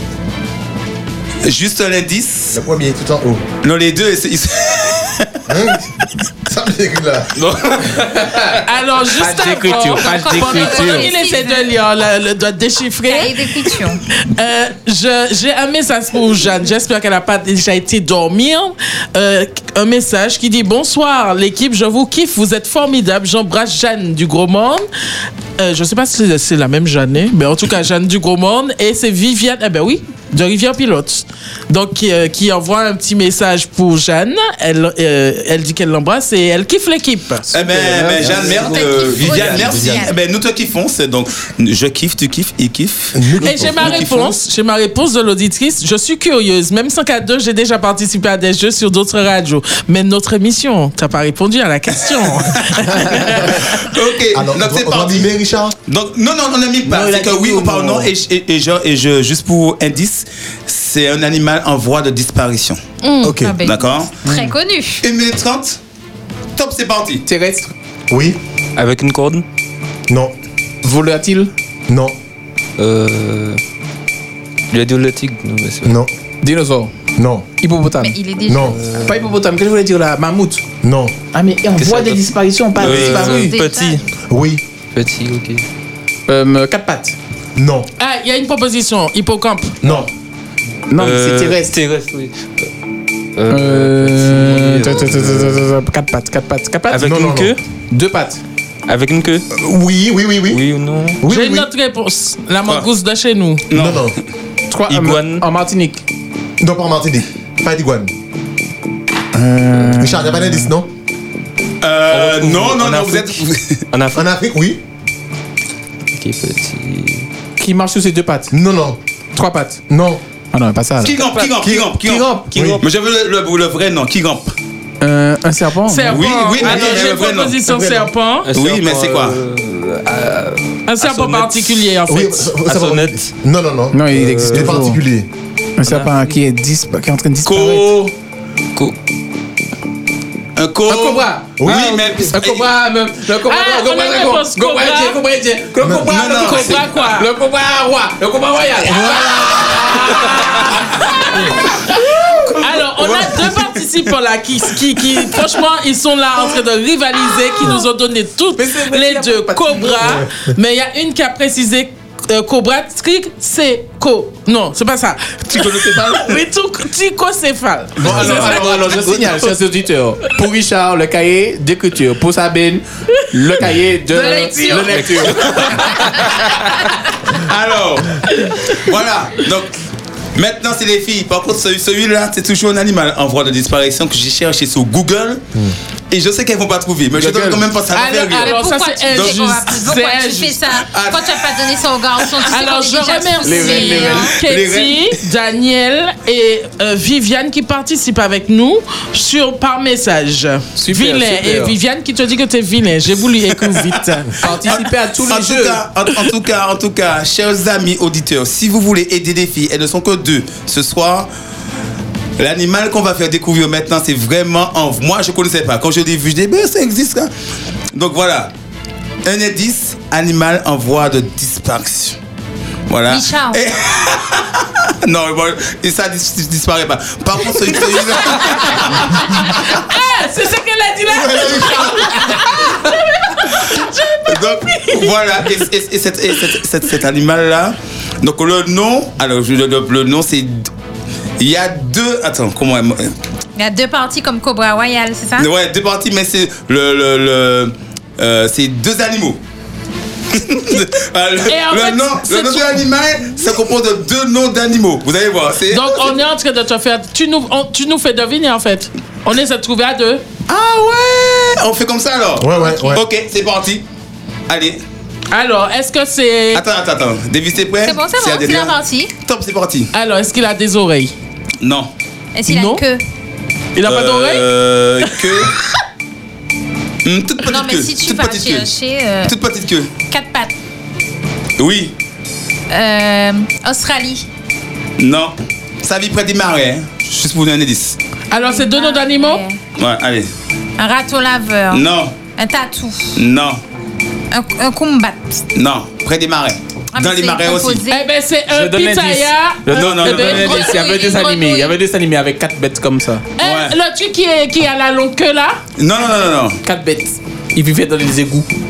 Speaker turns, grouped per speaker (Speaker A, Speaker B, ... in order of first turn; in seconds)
Speaker A: 1.4-2.6, 3.6-5.3, 37.5-44.4, 53.5-55.3, 55.9-62.8, 63.6-64.1, 65.0-65.8, 66.6-67.2, 82.8-83.5, 103.7-104.2, 111.8-113.8, 121.0-124.5, 126.1-127.7, 128.5-129.4, 137.4-138.1, 140.6-142.7, 146.1-147.0, 152.9-154.1, 165.5-166.3, 168.1-168.9, 177.4-179.7, 180.3-185.4, 186.1-189.5, 190.9-191.5, 194.2-195.2, 204.5-211.3, 212.4-217.3, 217.9-218.5, 219.2-222.2, 222.9-229.4, 234.3-240.7, 241.4-243.1, 245.4-249.4, 250.3-256.2, 260.5-263.8, 264.5-264.8, 266.5-269.9, 271.6-271.9, 273.8-275.5, 277.0-278.7, 279.2-279.9, 281.6-281.9, 285.0-288.0, 289.8-290.3, 291.7-292.1, 293.2-293.6, 295.6-297.9, 299.7-300.7, 303.4-303.8, 305.8-306.6
Speaker B: 2.5-3.4, 5.5-5.9, 6.5-7.3, 43.1-44.0, 54.3-55.7, 63.2-63.6, 68.1-68.4, 70.1-70.3, 71.9-72.2, 75.8-76.1, 77.2-77.5, 78.5-78.8, 80.8-81.1, 84.3-84.6, 87.6-87.9, 89.8-90.1, 97.0-97.6, 99.5-100.6, 101.2-101.7, 103.7-104.2, 106.6-108.1, 110.0-110.9, 114.1-114.8, 118.5-119.0, 119.9-120.2, 121.6-122.0, 122.5-122.8, 132.1-135.3, 141.6-142.3, 148.8-150.2, 231.1-232.1, 262.4-263.0
Speaker C: 7.6-8.0, 39.1-39.7, 68.8-69.4, 72.8-73.6, 74.7-76.0, 78.7-79.2, 81.8-84.1, 84.9-85.7, 90.9-92.6, 93.4-95.6, 96.9-97.6, 98.9-99.5, 100.5-101.2, 104.9-105.5, 112.1-113.3, 113.9-114.2, 116.1-117.3, 128.4-131.7, 132.7-133.3, 134.2-134.8, 135.8-136.4, 174.9-176.0
Speaker D: 7.9-8.6, 9.2-11.1, 37.5-39.9, 56.9-58.1, 64.3-64.5, 67.3-67.7, 70.8-71.5, 76.4-76.9, 77.5-78.2, 79.0-80.7, 81.3-83.3, 86.3-87.2, 90.9-91.8, 93.5-97.0, 97.9-98.4, 104.7-106.0, 109.4-110.7, 117.6-118.5, 119.3-119.8, 120.5-121.3, 122.0-122.8, 125.0-126.2, 127.7-128.1, 133.9-135.0, 135.8-138.1, 140.9-150.8, 158.6-160.2, 168.0-176.1, 187.2-187.6, 193.4-194.2, 200.8-201.7, 204.4-205.8, 298.5-303.3, 306.6-308.5
Speaker E: 8.6-13.7, 14.3-24.9, 25.6-37.5, 43.4-53.6, 63.0-63.4, 88.0-89.8, 101.3-103.7, 125.9-128.5, 130.9-132.6, 143.4-145.2, 146.3-147.3, 151.0-151.6, 152.6-169.5, 174.1-175.1, 187.9-190.6, 192.4-204.5, 228.1-235.1, 251.5-252.9, 255.7-260.2, 265.3-266.6, 269.9-271.1, 272.5-272.9, 273.8-274.5, 275.0-275.5, 288.3-289.4, 297.9-300.9, 303.4-305.6
Speaker F: 9.8-11.7, 13.1-14.0, 38.5-40.1, 63.2-65.0, 78.0-78.8, 82.9-84.0, 188.4-194.3, 223.1-223.6, 243.6-245.5, 262.6-263.0, 267.9-269.1, 272.4-273.0, 277.4-279.4, 280.1-280.5, 282.7-284.3, 288.4-289.6, 290.8-291.8, 292.4-293.2, 294.3-295.4, 296.9-298.1, 300.2-301.8